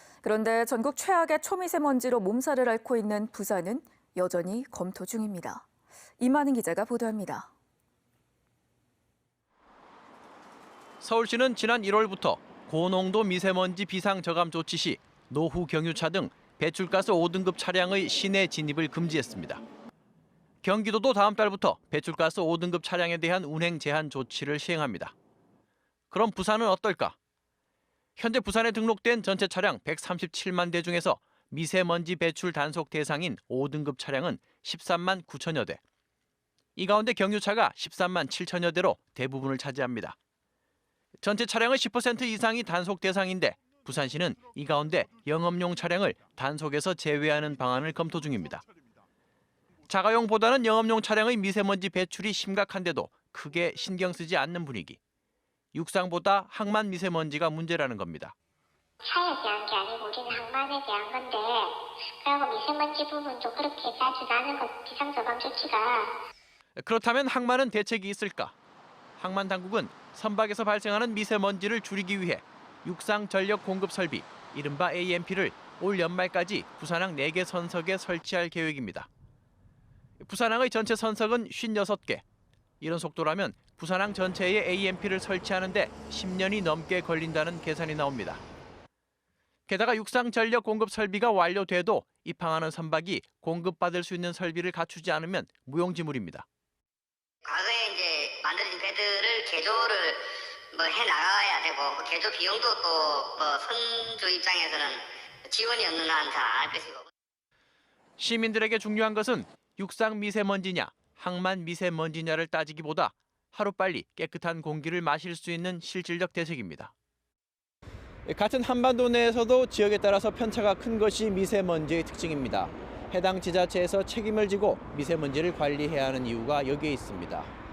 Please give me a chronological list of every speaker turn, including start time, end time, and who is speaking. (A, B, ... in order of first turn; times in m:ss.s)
0:00.2-0:05.7 A
0:06.2-0:07.5 A
0:11.0-0:19.6 B
0:20.6-0:25.2 B
0:26.1-0:27.2 B
0:28.2-0:35.8 B
0:36.8-0:40.2 B
0:41.2-0:48.6 B
0:49.9-0:55.0 B
0:55.7-0:58.4 B
0:59.0-1:06.1 C
1:06.8-1:08.6 B
1:09.2-1:19.1 B
1:20.2-1:22.2 B
1:22.8-1:28.4 B
1:29.7-1:36.5 B
1:37.4-1:47.1 D
1:48.2-1:56.9 B
1:58.3-2:07.5 B